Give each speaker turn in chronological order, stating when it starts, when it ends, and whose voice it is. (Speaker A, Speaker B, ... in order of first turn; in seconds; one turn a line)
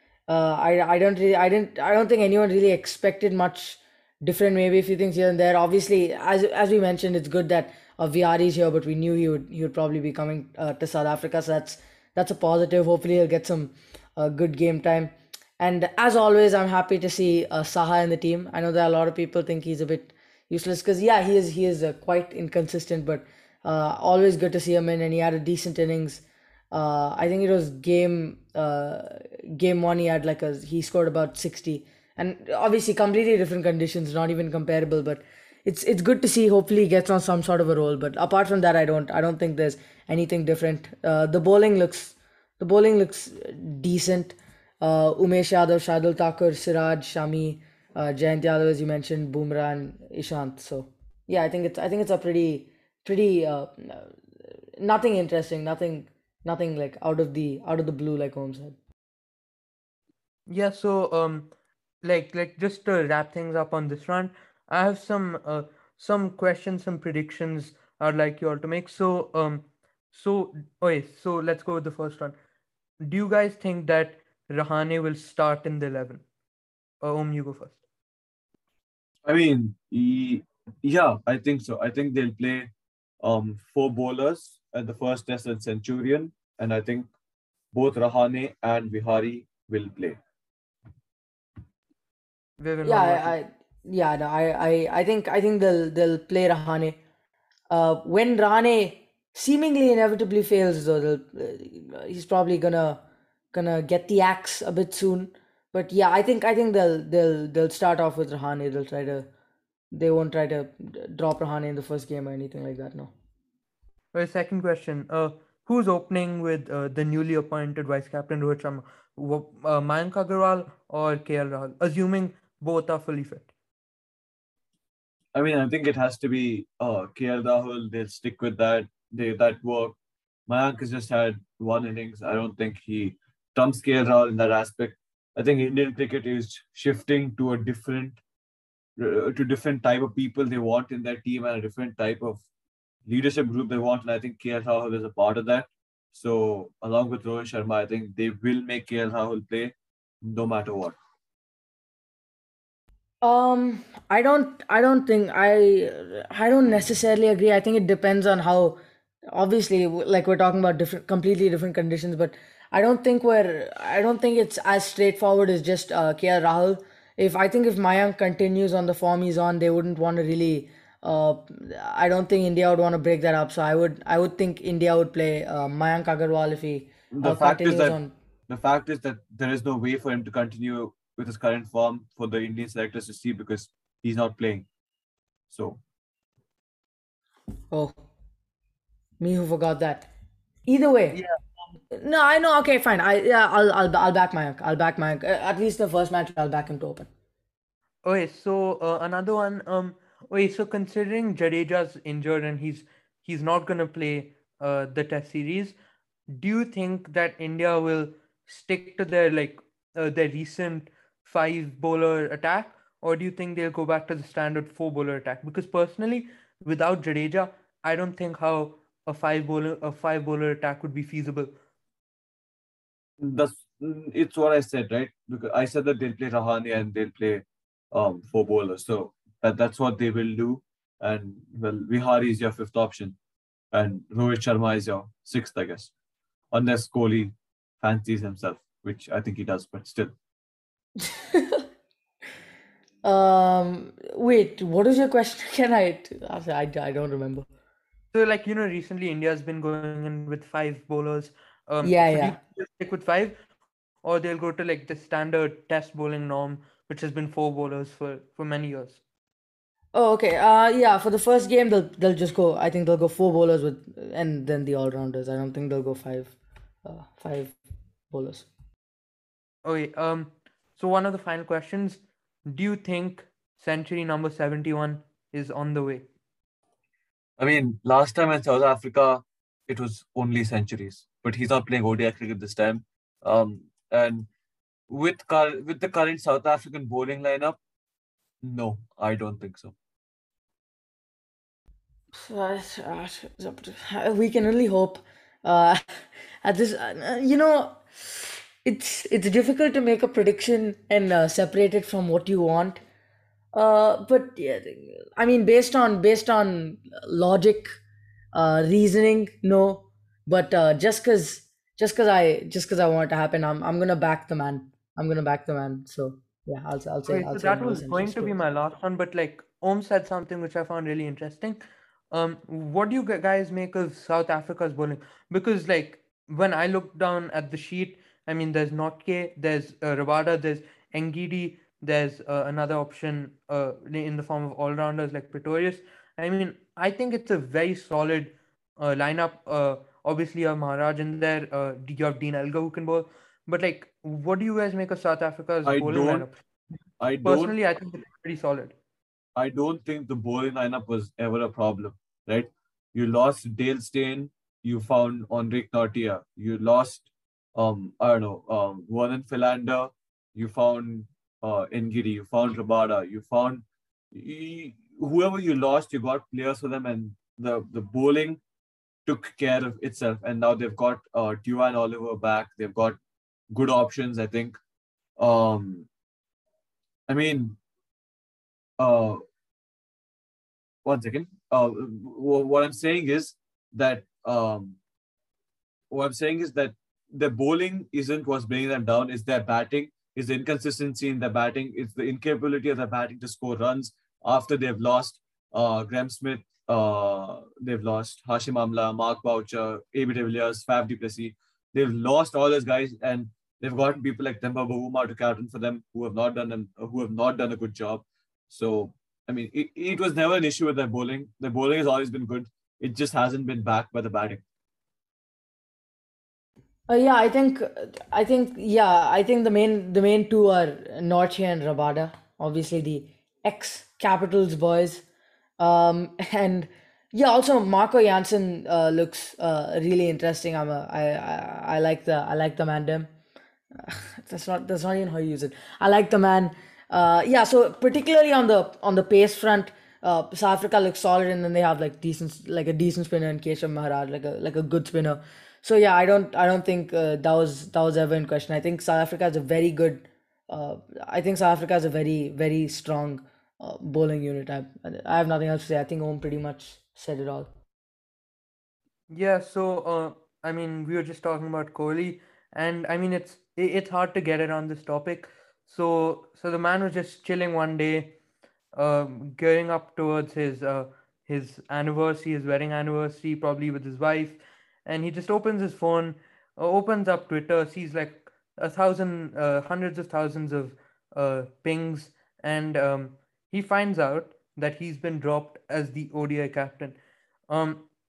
Speaker A: 0.3-54.2
Speaker A: 54.8-58.8
Speaker B: 60.5-61.5
Speaker B: 62.0-72.3
Speaker B: 73.0-76.2
Speaker B: 77.0-77.8
Speaker C: 79.3-82.7
Speaker C: 83.2-87.1
Speaker C: 87.7-90.2
Speaker B: 92.6-93.4
Speaker A: 92.8-97.0
Speaker A: 97.7-103.0
Speaker A: 103.5-109.3
Speaker A: 109.9-113.1
Speaker B: 114.1-123.5
Speaker C: 125.3-130.0
Speaker C: 130.5-138.2
Speaker C: 139.0-142.4
Speaker C: 143.1-151.0
Speaker A: 153.2-158.8
Speaker A: 159.3-178.2
Speaker C: 177.1-178.0
Speaker C: 178.5-184.7
Speaker C: 185.5-185.8
Speaker A: 187.7-188.0
Speaker A: 189.2-190.1
Speaker A: 190.7-191.2
Speaker A: 191.9-197.1
Speaker B: 198.1-205.7
Speaker B: 206.3-221.5
Speaker C: 223.2-233.2
Speaker C: 233.7-235.9
Speaker C: 236.5-240.1
Speaker A: 241.0-241.6
Speaker A: 243.0-247.5
Speaker B: 248.1-253.4
Speaker A: 251.8-252.4
Speaker B: 254.0-259.0
Speaker A: 259.9-267.6
Speaker A: 268.1-268.5
Speaker B: 269.6-276.1
Speaker C: 277.4-284.3
Speaker C: 284.9-287.6
Speaker C: 288.4-289.8
Speaker A: 292.1-302.8
Speaker A: 303.5-307.8
Speaker A: 308.3-318.4
Speaker B: 317.1-321.6
Speaker B: 322.1-346.4
Speaker C: 345.6-346.3
Speaker C: 347.0-347.6
Speaker B: 347.2-348.8
Speaker C: 349.4-368.4
Speaker C: 369.1-373.0
Speaker C: 373.5-374.6
Speaker C: 375.2-375.9
Speaker C: 377.1-377.6
Speaker C: 378.8-379.2
Speaker C: 380.9-384.8
Speaker C: 385.9-414.4
Speaker A: 416.9-425.1
Speaker A: 425.6-433.1
Speaker A: 433.8-457.5
Speaker B: 459.1-468.1
Speaker B: 468.7-487.0
Speaker B: 487.5-487.9